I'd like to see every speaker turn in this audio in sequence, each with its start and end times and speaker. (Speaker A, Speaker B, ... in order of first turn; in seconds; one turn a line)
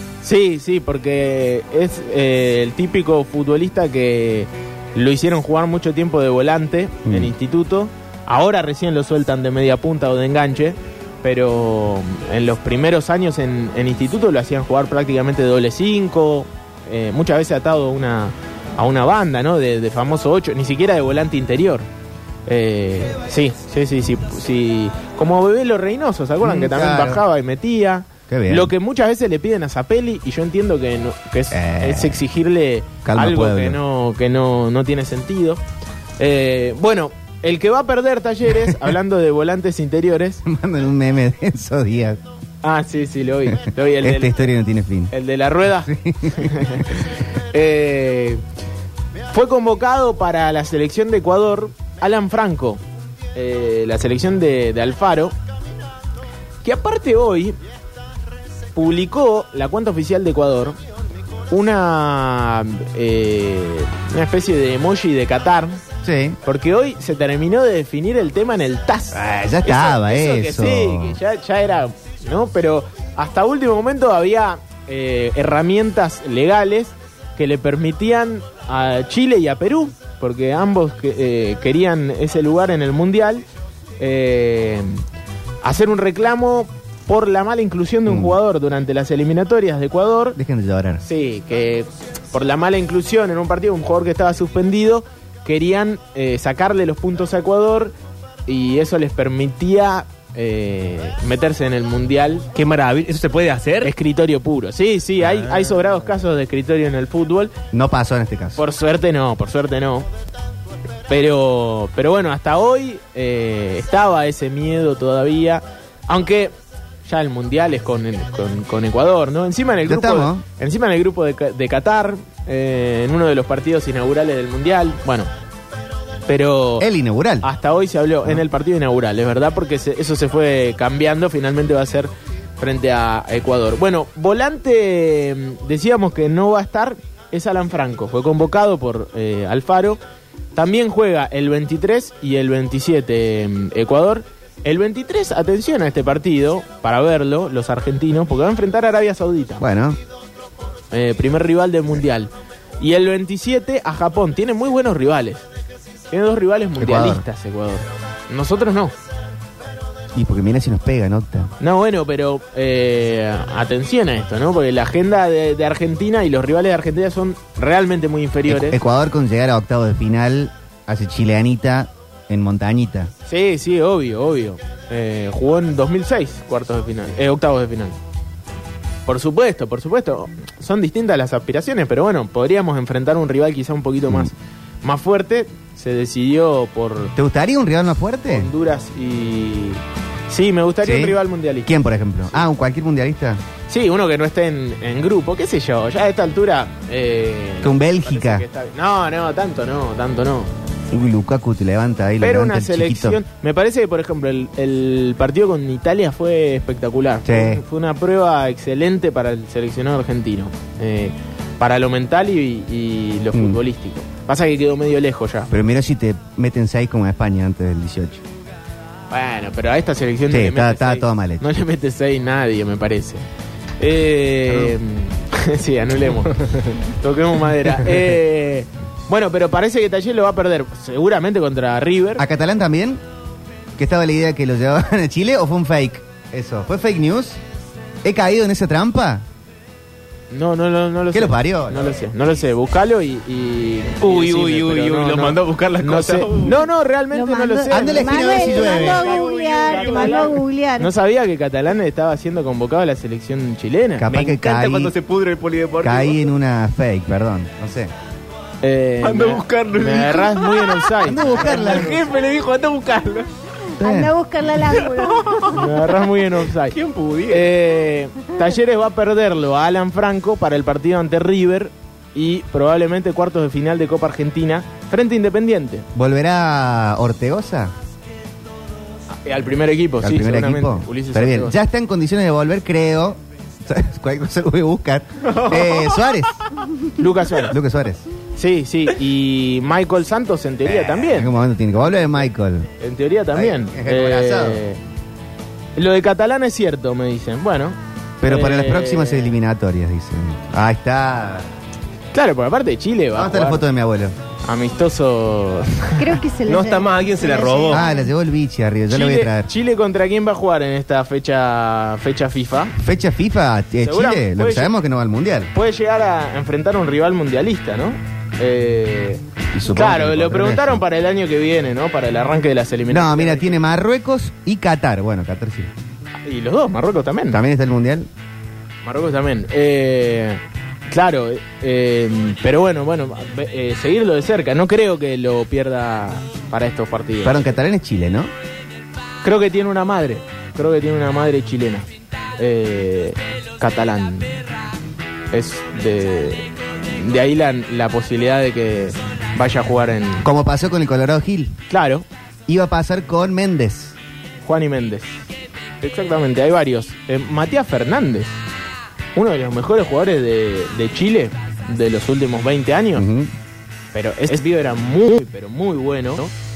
Speaker A: 0.2-21.9
Speaker B: 7.1-7.3
Speaker A: 22.5-35.6
Speaker B: 26.4-27.2
Speaker B: 28.3-28.7
Speaker B: 31.5-32.2
Speaker B: 33.0-33.8
Speaker A: 36.2-40.4
Speaker B: 40.5-42.2
Speaker A: 42.6-44.4
Speaker B: 43.5-45.1
Speaker A: 45.1-48.4
Speaker B: 45.8-46.9
Speaker A: 49.3-52.8
Speaker A: 53.4-55.3
Speaker A: 56.6-57.6
Speaker A: 58.8-60.8
Speaker A: 61.5-65.8
Speaker B: 66.0-66.4
Speaker A: 66.4-83.5
Speaker B: 69.1-71.2
Speaker A: 84.0-85.0
Speaker A: 85.6-90.4
Speaker B: 88.1-88.4
Speaker B: 90.4-91.0
Speaker A: 91.0-97.9
Speaker A: 98.5-102.5
Speaker C: 102.5-103.9
Speaker A: 103.8-107.5
Speaker B: 107.7-108.6
Speaker A: 108.6-110.1
Speaker A: 111.1-116.5
Speaker A: 117.1-125.3
Speaker B: 119.9-120.4
Speaker A: 126.3-126.9
Speaker B: 126.8-127.5
Speaker A: 127.4-140.0
Speaker A: 140.6-149.6
Speaker B: 149.6-150.0
Speaker A: 150.9-155.4
Speaker A: 156.1-158.9
Speaker B: 156.8-157.2
Speaker B: 160.1-161.5
Speaker A: 161.6-168.8
Speaker B: 168.5-173.1
Speaker A: 173.3-178.0
Speaker A: 179.1-187.2
Speaker B: 187.2-188.5
Speaker A: 188.3-191.8
Speaker B: 190.8-193.4
Speaker A: 193.7-200.5
Speaker B: 197.6-198.4
Speaker B: 200.9-203.2
Speaker A: 202.2-215.5
Speaker B: 207.2-207.6
Speaker B: 213.3-213.6
Speaker B: 215.5-218.2
Speaker A: 219.1-223.2
Speaker B: 220.3-221.4
Speaker A: 223.8-232.2
Speaker B: 224.5-224.8
Speaker B: 232.2-233.0
Speaker B: 233.8-237.4
Speaker B: 238.0-239.2
Speaker A: 240.3-254.1
Speaker B: 241.1-242.0
Speaker C: 244.0-246.6
Speaker D: 247.1-250.9
Speaker B: 247.7-249.2
Speaker C: 248.9-250.4
Speaker B: 254.0-254.9
Speaker C: 254.1-256.2
Speaker B: 255.8-257.9
Speaker A: 258.6-262.1
Speaker C: 259.0-263.3
Speaker B: 261.0-262.0
Speaker B: 263.8-264.1
Speaker D: 263.8-265.7
Speaker C: 264.7-265.8
Speaker A: 265.5-266.8
Speaker C: 266.7-267.5
Speaker A: 267.3-275.9
Speaker B: 275.9-277.7
Speaker A: 279.2-281.6
Speaker B: 280.0-286.4
Speaker C: 285.3-285.9
Speaker A: 286.9-287.6
Speaker B: 287.4-288.1
Speaker A: 288.4-291.3
Speaker B: 290.6-292.7
Speaker A: 292.8-294.8
Speaker B: 293.3-294.6
Speaker A: 295.8-299.4
Speaker B: 298.2-301.5
Speaker A: 302.1-303.6
Speaker B: 303.1-304.1
Speaker A: 304.4-306.2
Speaker D: 306.0-308.1
Speaker C: 306.5-307.8
Speaker B: 307.7-309.5
Speaker A: 308.9-312.8
Speaker B: 312.8-315.5
Speaker A: 313.8-314.7
Speaker A: 315.5-323.6
Speaker B: 319.5-320.8
Speaker B: 322.9-325.7
Speaker A: 326.3-327.4
Speaker B: 327.3-328.1
Speaker A: 328.9-337.6
Speaker B: 337.2-338.3
Speaker A: 339.2-341.9
Speaker A: 342.4-344.3
Speaker A: 345.3-350.3
Speaker B: 350.2-351.6
Speaker A: 351.7-352.1
Speaker B: 352.5-353.9
Speaker A: 354.4-355.2
Speaker A: 355.8-358.4
Speaker A: 359.2-363.1
Speaker B: 362.9-363.3
Speaker A: 363.9-366.3